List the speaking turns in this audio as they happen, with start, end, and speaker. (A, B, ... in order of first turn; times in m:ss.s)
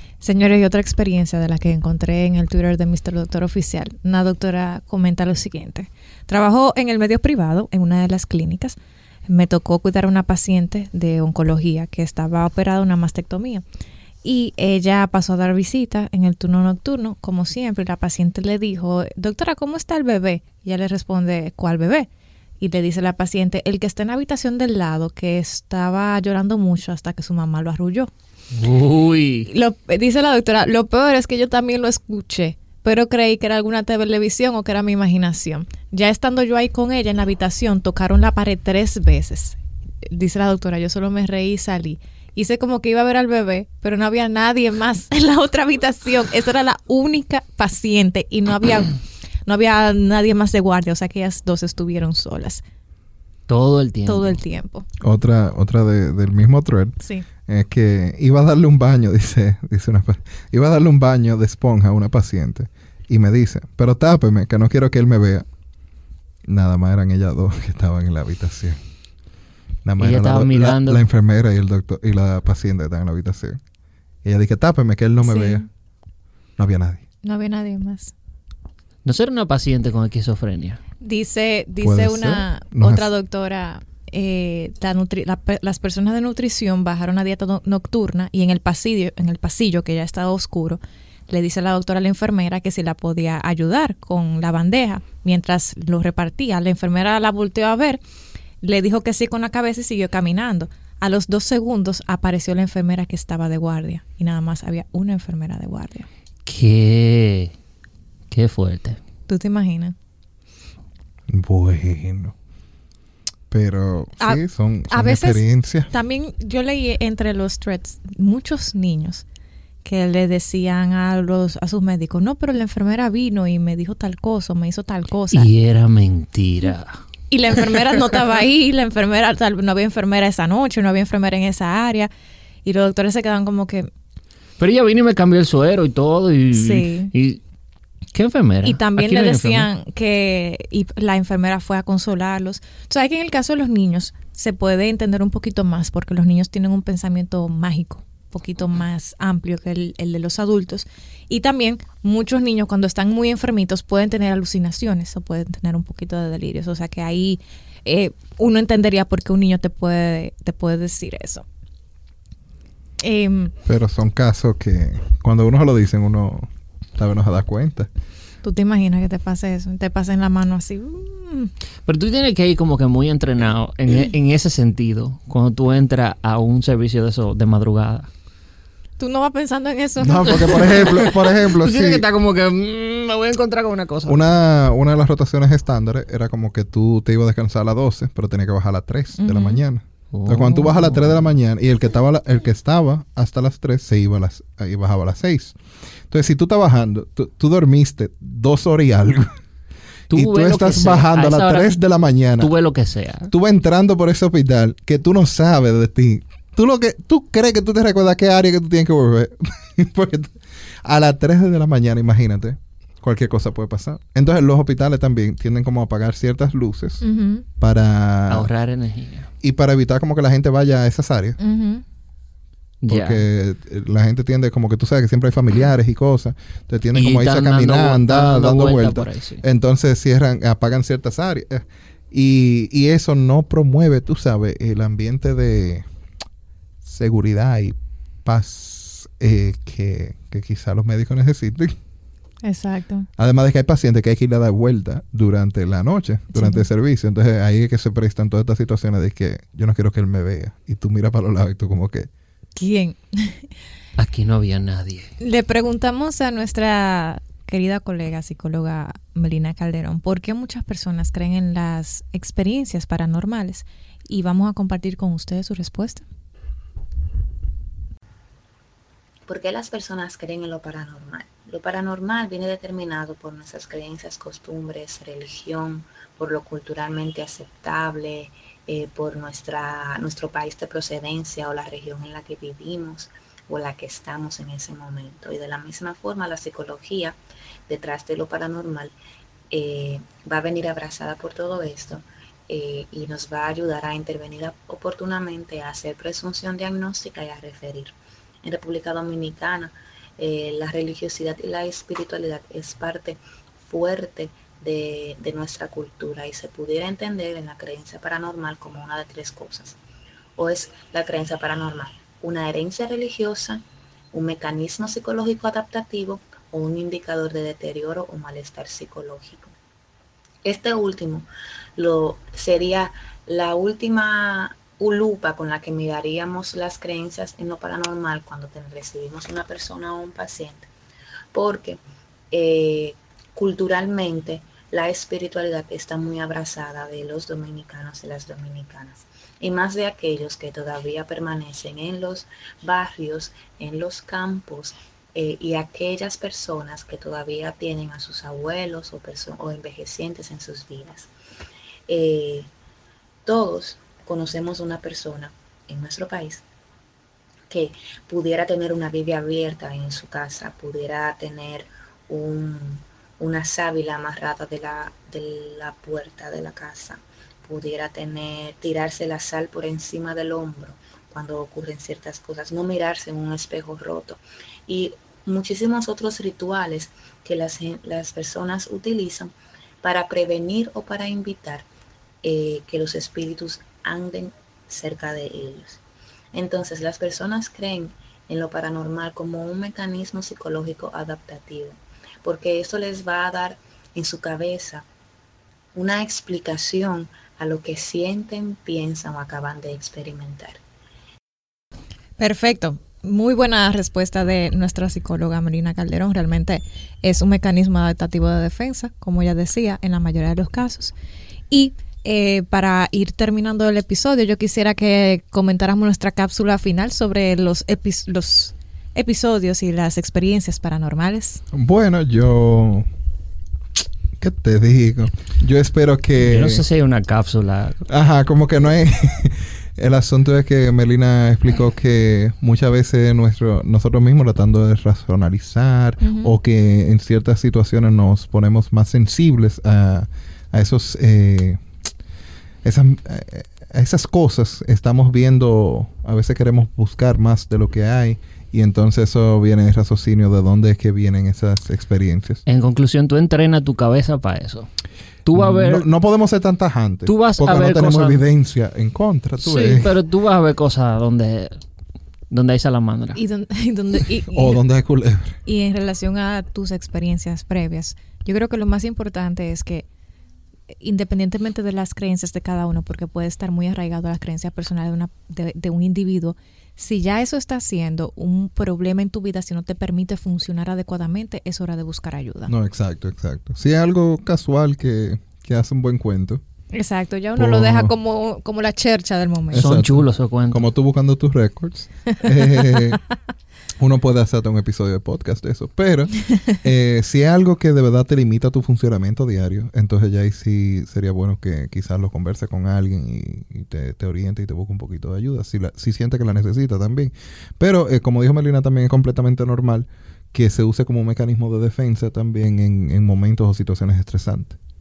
0:00.2-0:13.6 A
0:14.2-0:22.1 A
0:22.6-0:28.1 A
0:28.5-0:29.5 B
0:29.5-0:52.6 A
0:53.5-0:54.4 B
0:54.1-0:54.9 A
0:55.0-1:05.4 C
0:57.0-0:57.3 A
1:06.5-1:08.8 C
1:09.8-1:13.6 C
1:10.0-1:11.0 B
1:14.2-1:15.7 C
1:15.2-1:15.6 A
1:16.6-1:17.0 C
1:17.2-1:18.1 A
1:19.0-1:20.8 B
1:21.0-1:38.0 A
1:21.8-1:23.1 C
1:38.6-1:46.1 A
1:46.5-1:47.5 B
1:48.3-1:49.0 B
1:49.3-1:50.0 A
1:51.3-1:52.3 C
1:53.5-1:55.9 C
1:54.2-1:59.2 A
1:59.8-2:05.5 A
2:05.3-2:07.0 B
2:07.3-2:12.1 A
2:12.6-2:13.9 A
2:14.6-2:17.4 B
2:16.5-2:17.1 A
2:18.1-2:19.7 B
2:18.6-2:41.4 A
2:43.0-2:43.5 A
2:43.7-2:47.9 C
2:48.4-2:51.5 A
2:51.9-2:58.1 B
2:59.0-3:00.9 A
3:00.0-3:02.1 C
3:00.2-3:04.2 B
3:04.1-3:15.6 C
3:09.2-3:09.6 A
3:10.1-3:11.2 B
3:16.1-3:19.3 C
3:20.1-3:21.8 B
3:20.1-3:22.5 C
3:22.4-3:23.3 B
3:23.3-3:37.0 C
3:37.0-3:37.4 A
3:37.6-3:38.5 C
3:38.3-3:39.3 B
3:39.4-3:41.4 C
3:41.4-3:41.8 A
3:42.8-3:43.2 B
3:42.9-3:55.8 C
3:46.9-3:49.4 B
3:56.8-4:01.8 C
4:02.4-4:03.1 A
4:03.2-4:12.1 C
4:06.3-4:06.6 A
4:12.6-4:13.4 A
4:14.0-4:15.1 B
4:15.2-4:26.0 A
4:29.3-4:47.2 D
4:47.7-4:48.9 D
4:49.5-5:09.8 D
5:10.4-5:19.5 D
5:20.4-5:30.7 D
5:31.3-5:31.8 D
5:32.3-5:51.1 D
5:51.9-5:52.5 D
5:53.2-5:56.4 D
5:57.5-6:21.7 D
6:22.2-6:25.8 D
6:26.3-6:34.8 D
6:35.8-6:40.6 D
6:42.2-6:50.9 A
6:51.5-7:01.4 A
7:01.5-7:02.9 C
7:04.2-7:06.6 C
7:06.2-7:07.8 B
7:07.9-7:21.6 C
7:16.0-7:16.3 A
7:22.6-7:32.4 C
7:32.5-7:34.7 B
7:35.2-7:35.9 B
7:35.4-7:39.9 C
7:37.1-7:38.2 B
7:39.4-7:41.6 B
7:42.3-7:43.2 B
7:43.2-7:44.6 A
7:44.3-7:45.4 C
7:45.4-7:49.9 A
7:50.8-8:02.5 A
8:02.5-8:06.4 C
8:06.7-8:09.7 A
8:07.4-8:08.0 C
8:09.5-8:13.0 C
8:09.6-8:10.6 B
8:13.8-8:34.6 C